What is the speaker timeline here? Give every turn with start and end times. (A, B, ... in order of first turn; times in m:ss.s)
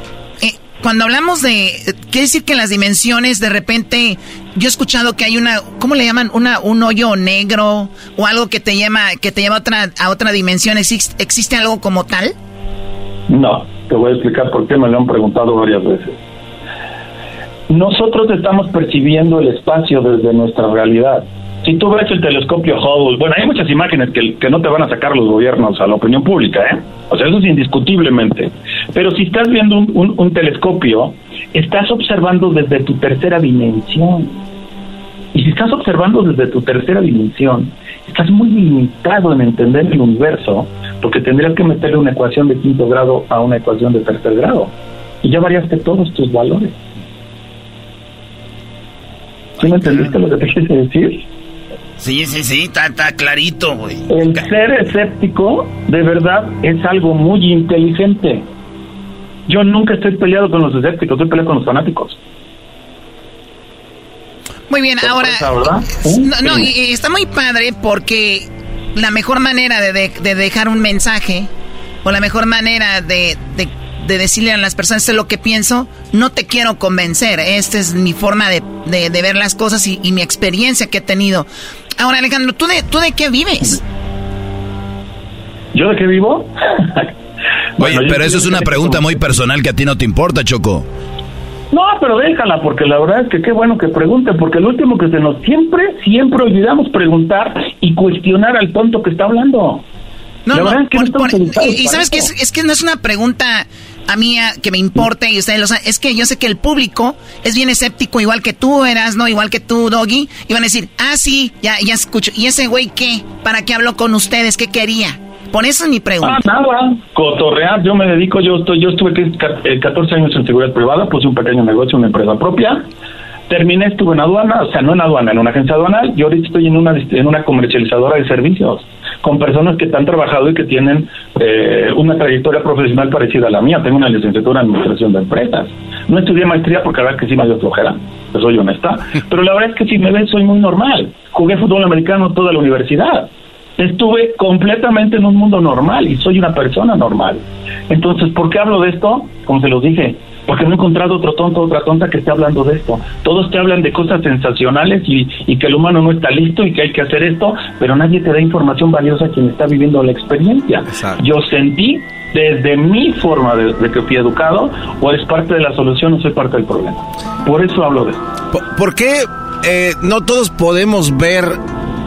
0:00.4-0:12.3 A
0:13.3-0:16.2 B
0:17.7-0:34.4 B
0:35.3-0:44.7 B
0:45.2-0:46.8 B
0:49.6-0:50.1 C
0:49.6-0:51.2 B
0:52.0-0:54.4 C
0:54.1-0:58.4 B
0:59.5-1:02.2 B
1:04.7-1:05.6 A
1:05.0-1:06.7 B
1:06.2-1:11.5 A
1:12.0-1:23.8 A
1:25.7-1:27.1 B
1:27.8-1:29.2 B
1:27.8-1:30.9 D
1:31.7-1:39.8 B
1:40.5-1:56.4 A
1:40.5-1:42.3 B
1:56.2-2:02.9 B
2:03.5-2:48.2 B
2:40.9-2:41.2 E
2:48.5-2:51.6 E